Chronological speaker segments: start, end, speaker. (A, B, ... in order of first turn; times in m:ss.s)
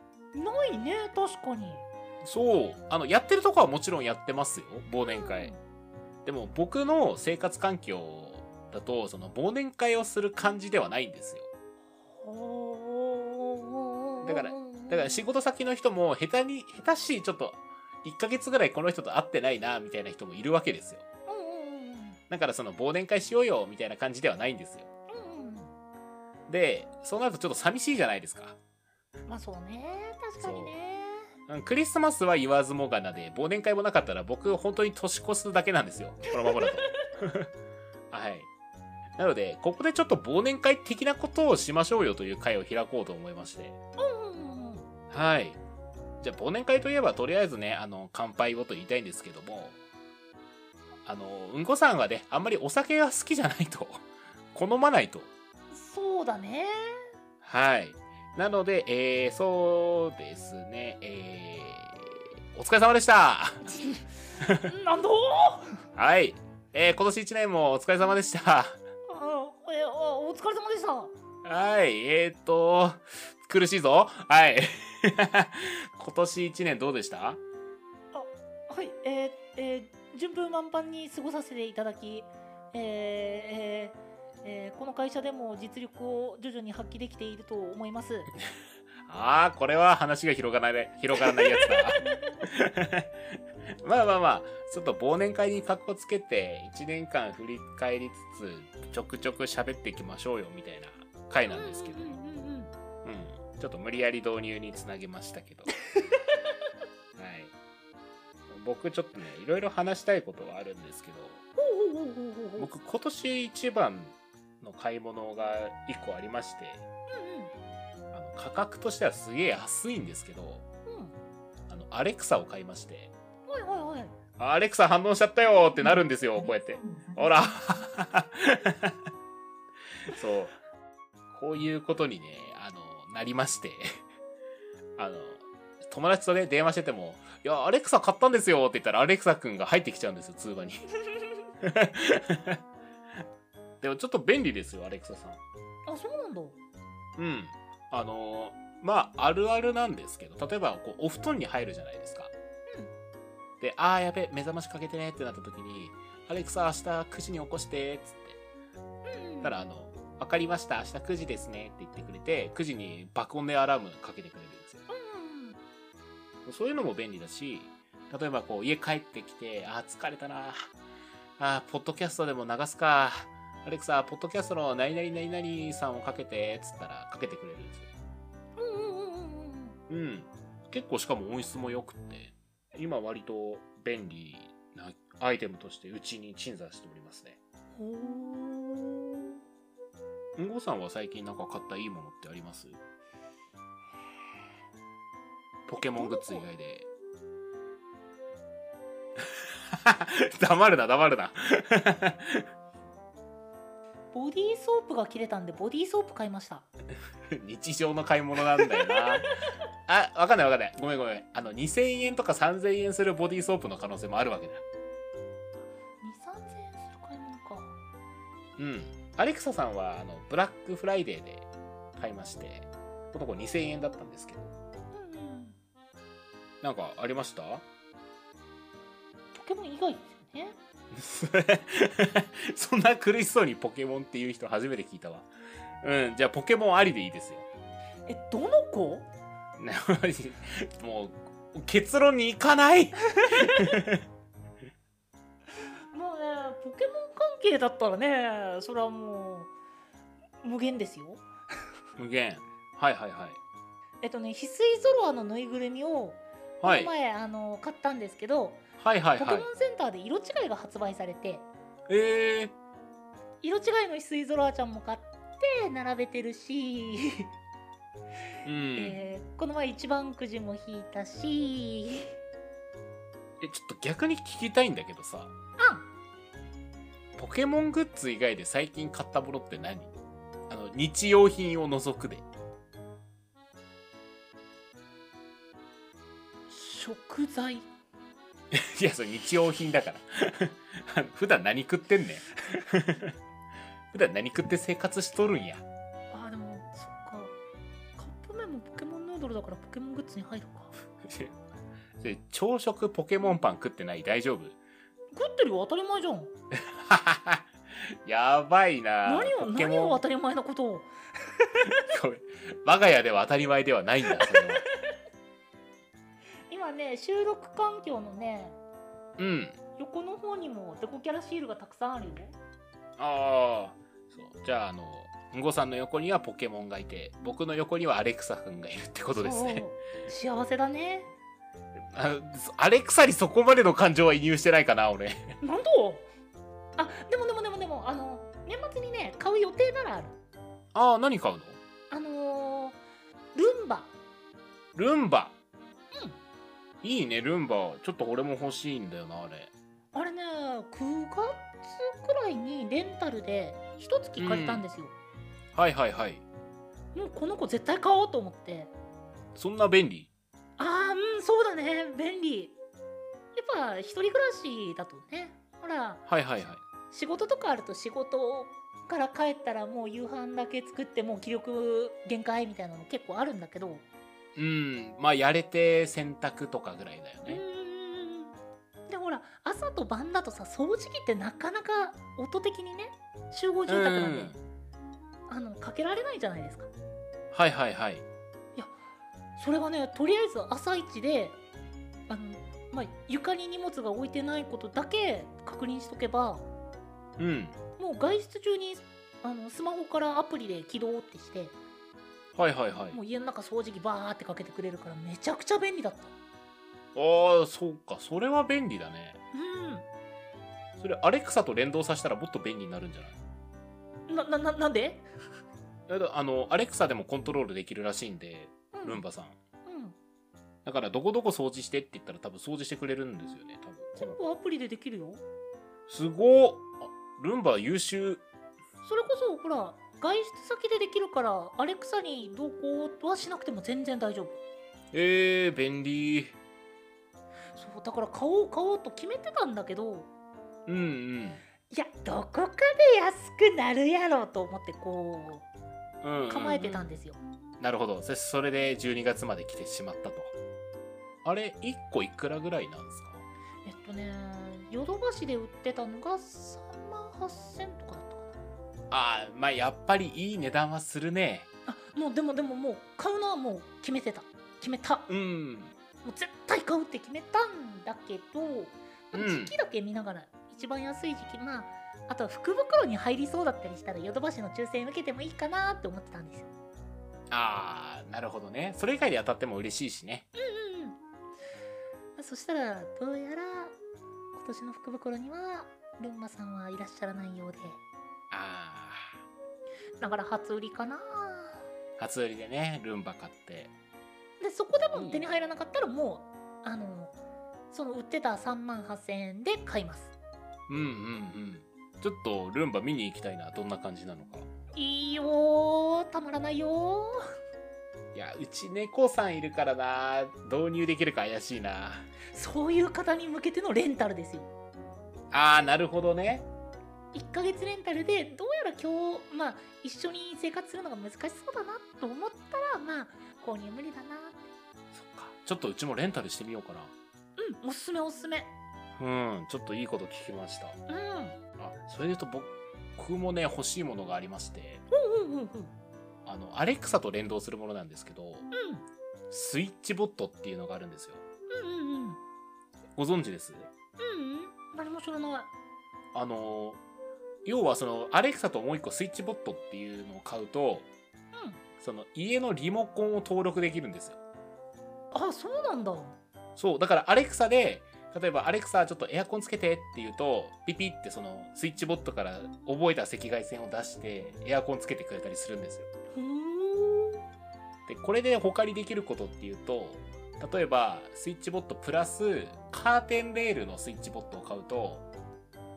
0:00.3-0:01.9 A
0:02.2-0:05.5 B
0:05.0-0:05.6 A
0:06.2-0:11.5 B
0:12.1-0:15.2 A
0:14.2-0:21.0 B
0:21.3-0:22.2 A
0:22.3-0:24.9 B
0:25.1-0:25.7 A
0:26.5-0:28.6 B
0:29.3-0:31.3 A
0:30.4-0:30.7 B
0:31.5-0:37.5 B
0:36.4-0:36.9 A
0:38.1-0:38.5 B
0:39.2-0:43.8 B
0:44.0-0:44.9 A
0:45.1-0:45.6 B
0:46.2-0:49.8 B
0:51.0-0:55.3 B
0:55.7-0:57.1 A
0:57.4-1:03.6 B
1:03.6-1:05.8 A
1:04.4-1:04.7 B
1:06.0-1:08.8 B
1:09.1-1:11.1 A
1:11.4-1:17.4 B
1:18.1-1:28.3 A
1:29.0-1:33.1 B
1:31.2-1:31.8 A
1:33.8-1:42.2 B
1:41.4-1:42.7 A
1:43.0-1:45.7 B
1:46.1-1:46.4 A
1:47.2-1:47.5 B
1:48.5-1:51.4 B
1:51.6-1:52.7 A
1:52.6-1:56.8 B
1:57.1-1:57.5 A
1:58.1-2:00.6 B
2:00.9-2:01.2 A
2:01.7-2:03.1 B
2:03.5-2:04.1 A
2:04.4-2:09.0 B
2:10.1-2:10.5 B
2:11.3-2:13.9 B
2:15.0-2:20.8 B
2:21.6-2:22.6 B
2:23.8-2:25.4 B
2:25.9-2:26.6 A
2:27.2-2:32.3 B
2:33.6-2:38.4 B
2:39.0-2:39.6 A
2:39.4-2:44.8 B
2:44.9-2:45.6 A
2:46.5-2:50.7 B
2:51.4-2:57.9 B
2:58.6-2:59.8 A
2:59.9-3:07.4 B
3:07.8-3:09.4 A
3:10.4-3:12.8 B
3:15.7-3:16.9 B
3:15.8-3:16.4 A
3:19.7-3:22.5 B
3:24.1-3:26.7 A
3:27.3-3:29.3 B
3:28.6-3:29.1 A
3:29.9-3:34.6 B
3:36.0-3:37.8 A
3:38.6-3:44.5 B
3:44.9-3:45.6 A
3:46.6-3:47.6 B
3:49.4-3:50.6 A
3:50.9-3:55.3 B
3:55.8-3:57.5 B
3:58.1-3:59.1 A
3:59.6-4:04.0 B
4:03.1-4:03.7 A
4:05.9-4:09.5 A
4:10.4-4:11.2 A
4:12.0-4:13.4 B
4:14.0-4:18.6 A
4:16.6-4:16.9 B
4:18.8-4:19.5 B
4:19.2-4:21.5 A
4:21.9-4:22.5 B
4:23.4-4:27.3 A
4:28.4-4:29.0 B
4:28.8-4:32.2 A
4:33.4-4:35.3 B
4:35.6-4:35.9 A
4:37.2-4:39.9 B
4:40.5-4:42.3 B
4:46.5-4:47.7 A
4:48.5-4:53.2 B
4:53.9-4:55.6 B
4:56.1-4:57.3 A
4:58.0-5:00.7 A
5:01.0-5:01.4 B
5:02.0-5:04.6 B
5:05.1-5:06.3 A
5:06.7-5:10.0 B
5:09.0-5:11.8 A
5:11.9-5:14.6 B
5:14.1-5:14.5 A
5:16.5-5:18.6 A
5:19.2-5:19.6 B
5:19.8-5:22.4 A
5:23.0-5:29.7 B
5:29.2-5:31.1 A
5:31.9-5:35.4 B
5:35.4-5:36.1 A
5:36.8-5:40.2 A
5:40.7-5:41.6 B
5:41.9-5:42.8 A
5:43.4-5:43.9 A
5:44.8-5:45.4 B
5:46.8-5:49.5 B
5:49.9-5:55.0 A
5:54.2-5:54.6 B
5:55.6-5:56.2 B
5:56.9-5:58.7 A
5:59.4-6:00.1 B
6:00.6-6:02.6 A
6:03.4-6:06.0 A
6:06.1-6:06.6 B
6:06.9-6:13.8 A
6:14.4-6:17.4 B
6:17.3-6:18.4 A
6:18.9-6:24.4 A
6:23.7-6:24.4 B
6:25.3-6:26.7 A
6:27.3-6:28.0 B
6:29.4-6:31.4 A
6:32.1-6:36.5 A
6:37.2-6:37.6 B
6:37.8-6:41.6 A
6:42.4-6:43.0 B
6:42.9-6:46.1 A
6:47.0-6:49.2 B
6:49.3-6:49.9 A
6:50.8-6:53.2 B
6:54.1-6:55.1 A
6:55.9-6:59.4 B
6:58.7-6:59.0 A
6:59.7-7:00.0 A
7:00.6-7:04.2 B
7:04.0-7:05.2 A
7:05.9-7:08.2 B
7:08.8-7:14.4 A
7:14.9-7:16.4 B
7:17.5-7:20.1 A
7:20.7-7:21.4 B
7:21.7-7:25.5 A
7:26.0-7:26.9 B
7:26.3-7:27.2 A
7:27.6-7:30.3 B
7:31.2-7:33.2 B
7:33.6-7:38.4 A
7:38.9-7:41.5 B
7:41.7-7:45.1 A
7:45.1-7:45.7 B
7:46.0-7:56.5 A
7:49.1-7:49.6 B
7:57.3-8:00.3 B
8:00.4-8:01.0 A
8:02.2-8:03.8 A
8:04.3-8:07.8 A
8:08.3-8:09.1 B
8:10.0-8:11.6 A
8:12.0-8:13.7 B
8:14.4-8:17.1 A
8:14.9-8:15.2 B
8:17.7-8:20.1 A
8:20.7-8:24.5 B
8:24.7-8:27.2 A
8:28.1-8:32.1 B
8:32.3-8:34.5 A
8:35.3-8:36.5 B
8:37.1-8:44.5 A
8:44.9-8:46.9 B
8:47.4-8:48.5 A
8:49.0-8:50.8 B
8:50.9-8:51.4 A
8:51.6-8:54.8 B
8:54.9-8:55.7 A
8:56.3-8:58.5 B
8:58.5-8:58.8 A
8:59.3-9:01.2 B
9:01.5-9:02.2 A
9:03.0-9:03.7 B
9:04.0-9:05.5 A
9:06.1-9:06.8 B
9:07.4-9:10.9 B
9:11.3-9:11.6 A
9:11.8-9:14.2 B
9:15.1-9:16.2 A
9:16.6-9:25.9 B
9:26.1-9:27.2 A
9:27.9-9:35.1 B